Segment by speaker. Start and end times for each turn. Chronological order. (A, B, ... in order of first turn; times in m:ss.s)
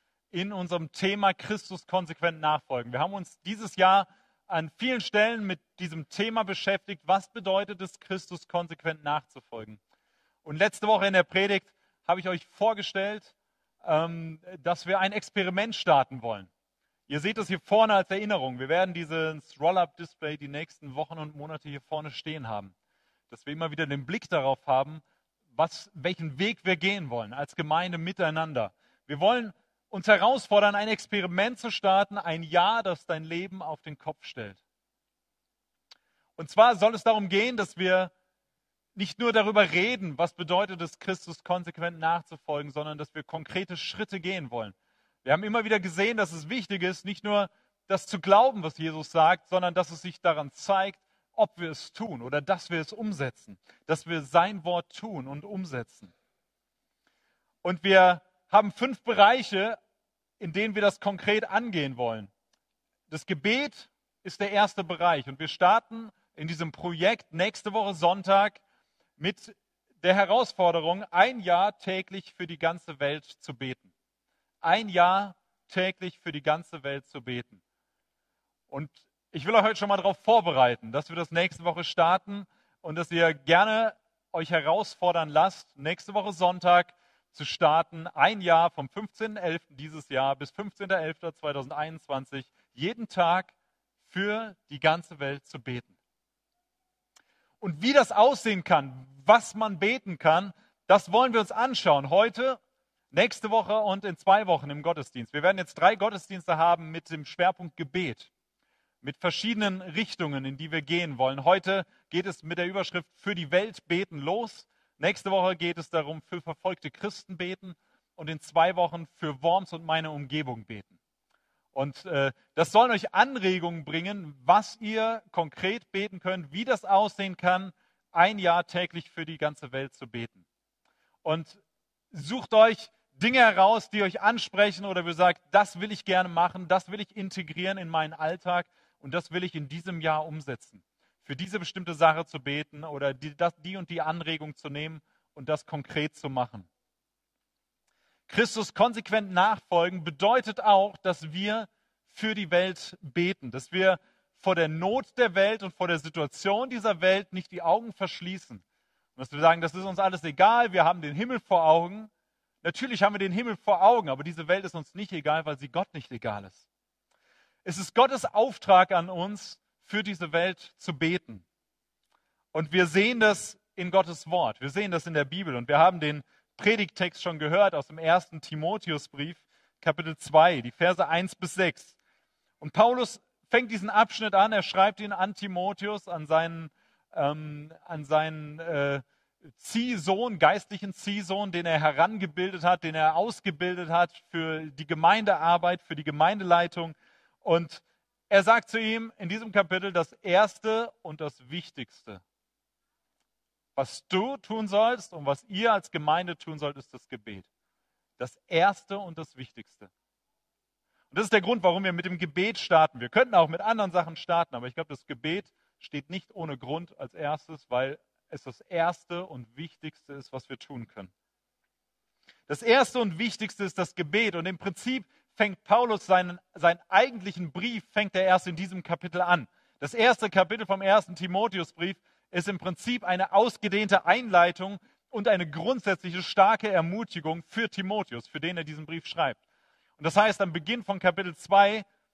0:00.3-0:09.8 A
0:10.4-0:16.5 A
0:17.1-0:22.7 A
0:23.3-0:25.0 A
0:25.5-0:34.6 A
0:36.4-0:38.1 A
0:39.0-0:56.1 A
0:57.6-0:59.8 A
1:00.4-1:02.3 A
1:03.1-1:08.6 A
1:09.2-1:13.9 A
1:14.6-1:17.6 A
1:18.7-1:33.5 A
1:34.1-1:36.0 A
1:37.6-1:42.6 A
1:43.1-1:48.3 A
1:49.0-2:01.0 A
2:01.7-2:10.4 A
2:11.2-2:11.6 A
2:12.1-2:26.7 A
2:28.3-2:38.6 A
2:39.2-2:42.1 A
2:42.6-2:46.6 A
2:47.6-2:51.4 A
2:52.5-3:02.0 A
3:02.6-3:09.0 A
3:09.6-3:22.2 A
3:23.8-3:27.5 A
3:28.2-3:29.9 A
3:31.1-3:41.1 A
3:42.5-3:59.4 A
4:00.0-4:01.8 A